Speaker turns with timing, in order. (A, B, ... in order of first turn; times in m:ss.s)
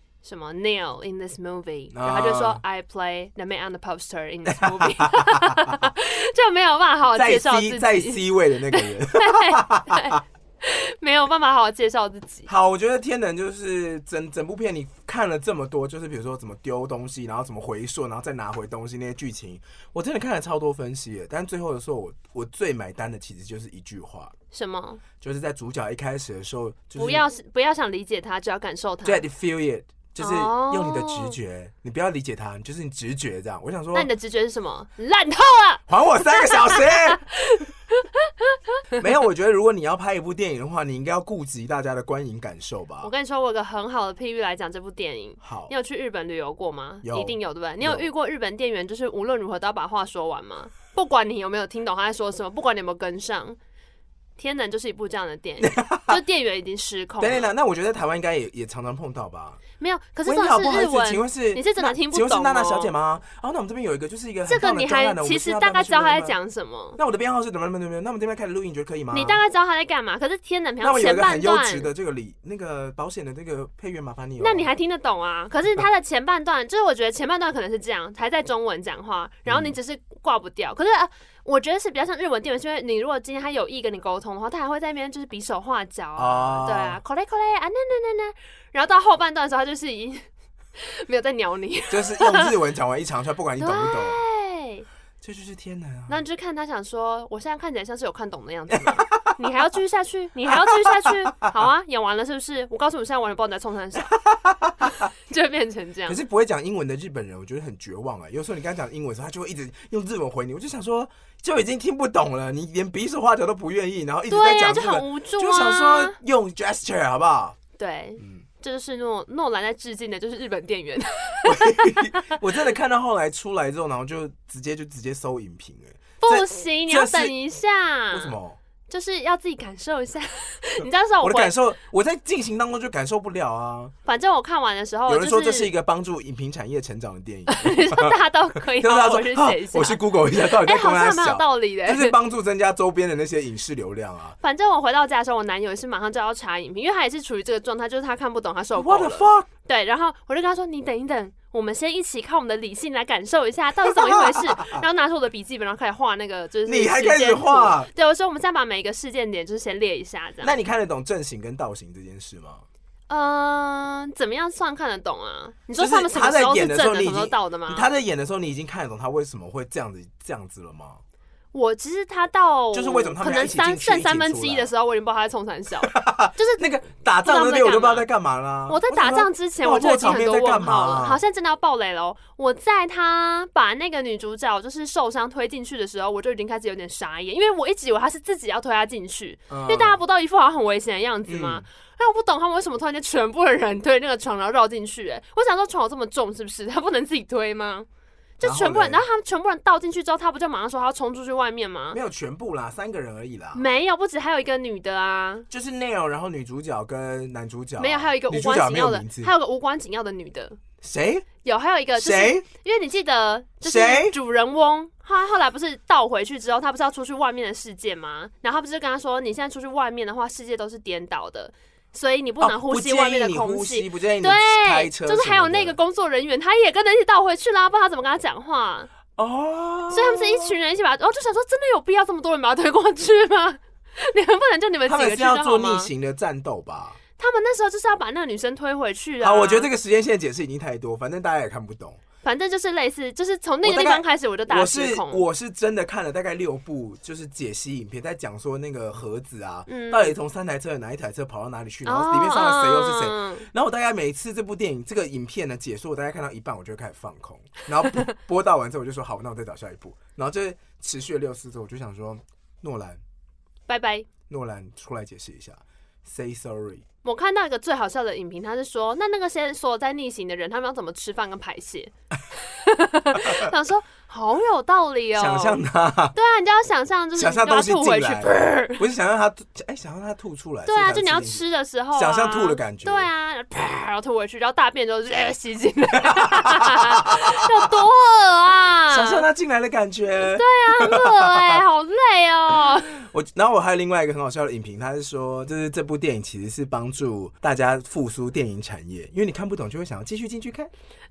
0:00.2-0:12.5 A
0:01.9-0:02.6 B
0:04.5-0:05.8 B
0:07.1-0:10.2 B
0:12.5-0:24.3 B
0:24.5-0:25.0 A
0:25.2-0:27.2 B
0:27.0-0:29.2 A
0:29.0-0:34.1 B
0:30.2-0:31.4 A
0:33.9-0:38.8 A
0:35.9-0:37.2 B
0:39.0-0:43.1 B
0:43.0-0:53.6 A
0:45.4-0:45.7 B
0:47.0-0:48.0 B
0:54.4-0:57.5 A
0:55.6-0:56.2 B
0:57.2-0:59.6 B
0:59.8-1:02.9 A
1:00.2-1:06.4 B
1:04.5-1:07.0 A
1:07.0-1:09.4 B
1:09.1-1:11.9 A
1:10.8-1:14.7 B
1:14.4-1:30.2 A
1:19.5-1:19.8 B
1:26.2-1:27.0 B
1:30.8-1:32.5 A
1:31.9-1:34.2 B
1:33.6-1:34.9 A
1:35.2-1:36.2 B
1:36.1-1:44.1 A
1:38.7-1:39.3 B
1:40.5-1:41.5 B
1:44.0-1:45.1 B
1:45.3-1:46.2 A
1:46.1-1:57.6 B
1:54.3-1:56.2 A
1:57.8-2:02.3 A
1:58.2-1:58.4 B
2:01.4-2:07.4 B
2:06.2-2:08.4 A
2:08.1-2:08.6 B
2:08.9-2:11.6 A
2:11.2-2:13.9 B
2:14.0-2:15.7 A
2:15.1-2:24.4 B
2:17.5-2:22.2 A
2:24.4-2:40.5 A
2:28.8-2:29.5 B
2:33.9-2:34.8 B
2:36.7-2:37.9 B
2:40.4-2:42.6 B
2:43.1-2:47.9 A
2:45.8-2:51.0 B
2:51.5-2:56.7 A
2:52.7-2:54.7 B
2:55.8-3:01.2 B
2:57.2-2:58.1 A
2:58.7-3:17.9 A
3:09.5-3:10.0 B
3:11.3-3:11.6 B
3:18.4-3:22.0 A
3:18.4-3:19.0 B
3:21.9-3:23.7 B
3:23.5-3:25.5 A
3:25.5-3:29.3 B
3:27.8-3:30.6 A
3:30.8-3:31.3 B
3:31.4-3:48.9 A
3:32.0-3:32.4 B
3:33.6-3:34.2 B
3:42.4-3:45.8 B
3:49.2-3:50.5 B
3:49.9-3:55.9 A
3:54.9-3:57.0 B
3:57.2-3:59.7 A
3:59.2-4:02.0 B
4:02.2-4:05.2 A
4:03.6-4:23.0 B
4:09.7-4:10.2 A
4:11.8-4:13.5 A
4:23.7-4:24.1 A
4:24.3-4:26.8 B
4:27.0-4:35.6 A
4:33.2-4:33.5 B
4:35.2-4:36.2 B
4:36.1-4:38.8 A
4:37.2-4:43.1 B
4:40.7-4:49.2 A
4:46.0-4:47.4 B
4:48.9-4:51.6 B
4:50.3-4:53.0 A
4:52.7-5:00.7 B